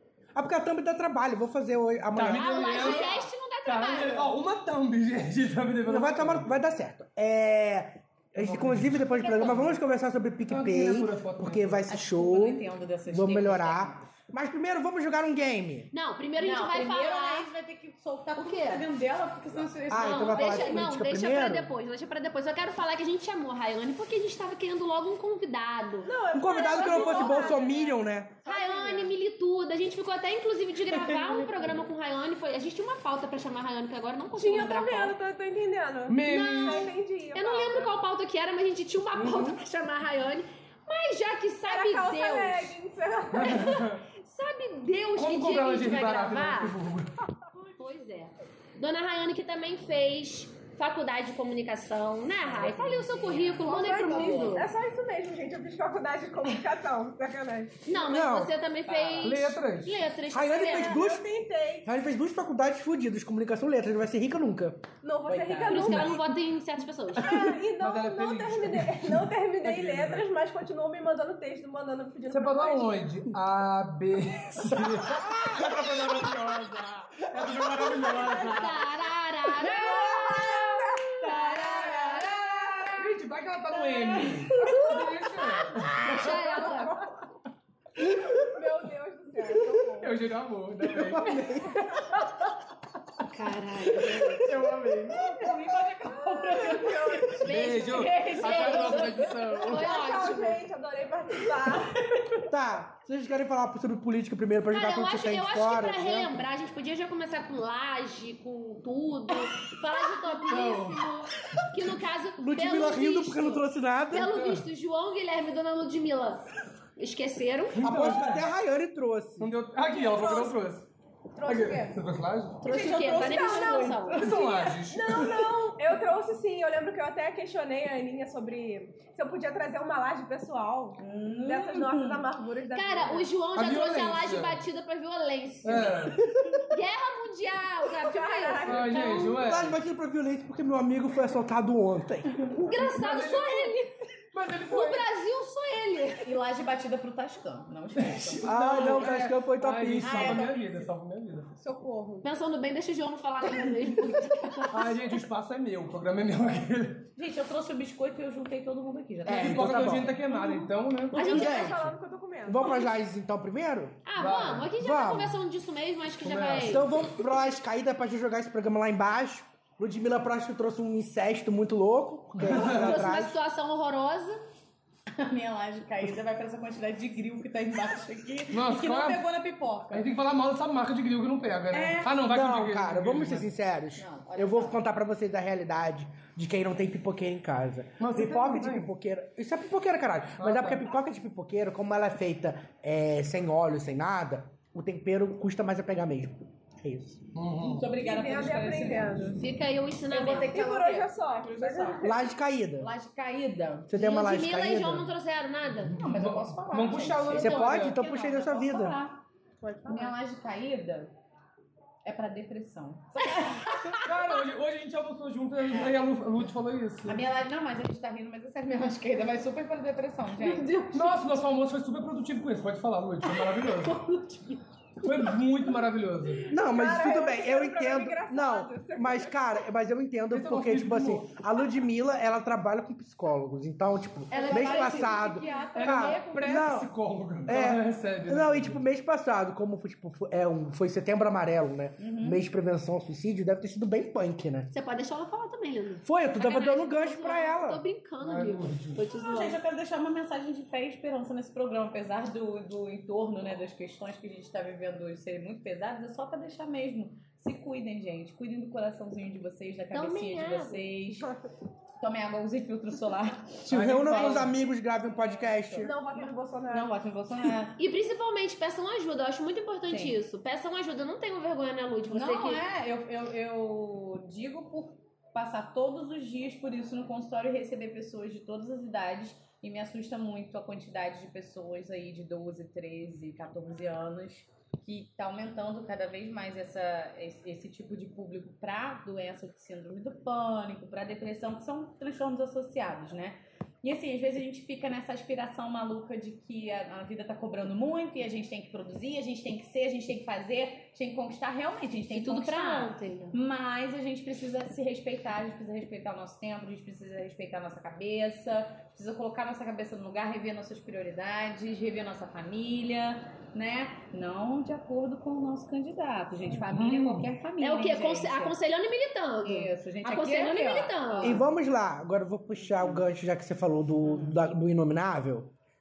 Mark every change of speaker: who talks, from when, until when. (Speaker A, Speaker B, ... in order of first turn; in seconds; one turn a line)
Speaker A: 0.3-3.0
Speaker B: 2.1-6.5
Speaker C: 2.3-4.3
Speaker A: 5.8-15.9
Speaker B: 8.4-9.0
Speaker B: 10.5-11.9
Speaker D: 11.9-14.0
Speaker C: 15.9-17.5
Speaker D: 16.4-20.9
Speaker C: 18.4-18.8
Speaker A: 19.9-21.7
Speaker C: 19.9-26.1
Speaker E: 26.0-29.1
Speaker A: 26.3-28.4
Speaker C: 26.7-27.6
Speaker C: 28.4-35.1
Speaker E: 34.3-38.0
Speaker B: 36.1-36.9
Speaker C: 36.3-42.8
Speaker B: 39.1-39.6
Speaker E: 41.6-43.7
Speaker B: 43.3-44.0
Speaker C: 43.4-46.8
Speaker B: 45.2-47.2
Speaker C: 47.6-54.7
Speaker D: 52.4-54.6
Speaker E: 53.6-57.8
Speaker C: 57.9-61.0
Speaker A: 58.0-58.5
Speaker D: 58.9-59.4
Speaker B: 59.2-60.0
Speaker A: 60.3-61.2
Speaker E: 60.6-61.9
Speaker A: 61.8-64.9
Speaker E: 65.0-66.2
Speaker D: 65.3-66.0
Speaker C: 65.7-67.4
Speaker E: 67.2-73.1
Speaker B: 67.8-70.2
Speaker B: 72.3-78.8
Speaker A: 74.8-75.6
Speaker E: 78.0-78.7
Speaker C: 78.5-82.8
Speaker E: 79.5-82.8
Speaker D: 81.3-82.9
Speaker B: 83.0-87.0
Speaker E: 84.2-84.8
Speaker C: 85.8-87.0
Speaker E: 86.3-87.1
Speaker E: 88.3-90.2
Speaker B: 90.0-91.3
Speaker A: 90.9-91.9
Speaker C: 93.3-94.5
Speaker B: 94.4-95.2
Speaker D: 95.1-99.2
Speaker E: 96.0-102.0
Speaker B: 97.4-99.9
Speaker C: 97.4-100.6
Speaker A: 102.5-106.5
Speaker C: 104.7-117.8
Speaker B: 110.5-111.1
Speaker A: 112.4-114.4
Speaker B: 114.2-114.6
Speaker B: 117.7-118.5
Speaker A: 117.8-119.5
Speaker B: 119.4-120.9
Speaker E: 119.8-120.6
Speaker E: 121.3-122.0
Speaker B: 121.4-122.6
Speaker C: 122.6-124.3
Speaker E: 122.6-133.3
Speaker B: 124.1-125.3
Speaker D: 131.0-132.3
Speaker C: 132.7-136.1
Speaker B: 133.5-134.6
Speaker B: 135.6-136.2
Speaker C: 136.7-139.6
Speaker E: 138.0-139.1
Speaker B: 138.6-139.7
Speaker A: 139.3-142.5
Speaker B: 142.6-143.7
Speaker C: 142.6-143.9
Speaker B: 144.3-145.1
Speaker C: 144.7-146.3
Speaker D: 146.2-149.3
Speaker B: 147.9-151.5
Speaker A: 148.4-150.5
Speaker D: 150.0-150.9
Speaker E: 151.6-152.2
Speaker C: 152.2-155.0
Speaker B: 154.7-157.1
Speaker D: 157.2-160.0
Speaker A: 159.2-160.1
Speaker B: 159.2-161.8
Speaker E: 160.4-162.9
Speaker C: 161.1-161.8
Speaker A: 161.2-161.8
Speaker A: 162.4-164.0
Speaker C: 164.1-166.8
Speaker B: 164.2-164.7
Speaker A: 164.8-165.4
Speaker B: 166.2-167.2
Speaker A: 166.6-173.4
Speaker B: 172.3-173.0
Speaker C: 172.5-174.4
Speaker D: 175.1-180.1
Speaker B: 178.5-179.2
Speaker B: 179.9-183.5
Speaker D: 181.7-182.1
Speaker A: 182.1-197.2
Speaker D: 184.0-184.8
Speaker B: 188.0-188.9
Speaker B: 190.4-190.9
Speaker B: 197.3-197.9
Speaker D: 197.6-199.4
Speaker E: 197.9-199.4
Speaker C: 199.3-200.5
Speaker D: 200.1-202.2
Speaker E: 200.3-202.2
Speaker A: 202.0-202.9
Speaker D: 202.8-203.9
Speaker A: 203.9-205.1
Speaker C: 203.9-206.0
Speaker B: 205.8-208.0
Speaker D: 205.9-209.2
Speaker A: 207.3-209.0
Speaker E: 209.6-210.1
Speaker D: 209.9-211.1
Speaker D: 212.0-214.0
Speaker B: 213.9-217.3
Speaker D: 217.0-220.8
Speaker C: 220.5-221.1
Speaker B: 220.9-224.0
Speaker C: 224.0-224.4
Speaker B: 225.0-226.5
Speaker A: 226.5-236.9
Speaker E: 226.5-229.6
Speaker B: 230.3-231.4
Speaker C: 234.3-235.3
Speaker D: 234.3-236.4
Speaker E: 234.4-236.3
Speaker B: 235.7-238.8
Speaker A: 237.4-244.7
Speaker D: 242.0-242.4
Speaker C: 244.7-249.6
Speaker A: 246.0-247.8
Speaker B: 248.2-249.0
Speaker D: 249.2-261.3
Speaker C: 259.9-260.9
Speaker D: 262.0-267.8
Speaker A: 263.7-265.9
Speaker B: 263.7-264.5
Speaker E: 265.8-266.9
Speaker C: 267.8-272.6
Speaker D: 269.9-270.2
Speaker D: 272.1-318.6
Speaker C: 302.1-303.4
Speaker B: 316.6-317.3
Speaker C: 317.6-321.4
Speaker D: 319.4-321.5
Speaker A: 321.2-325.5
Speaker D: 324.0-324.4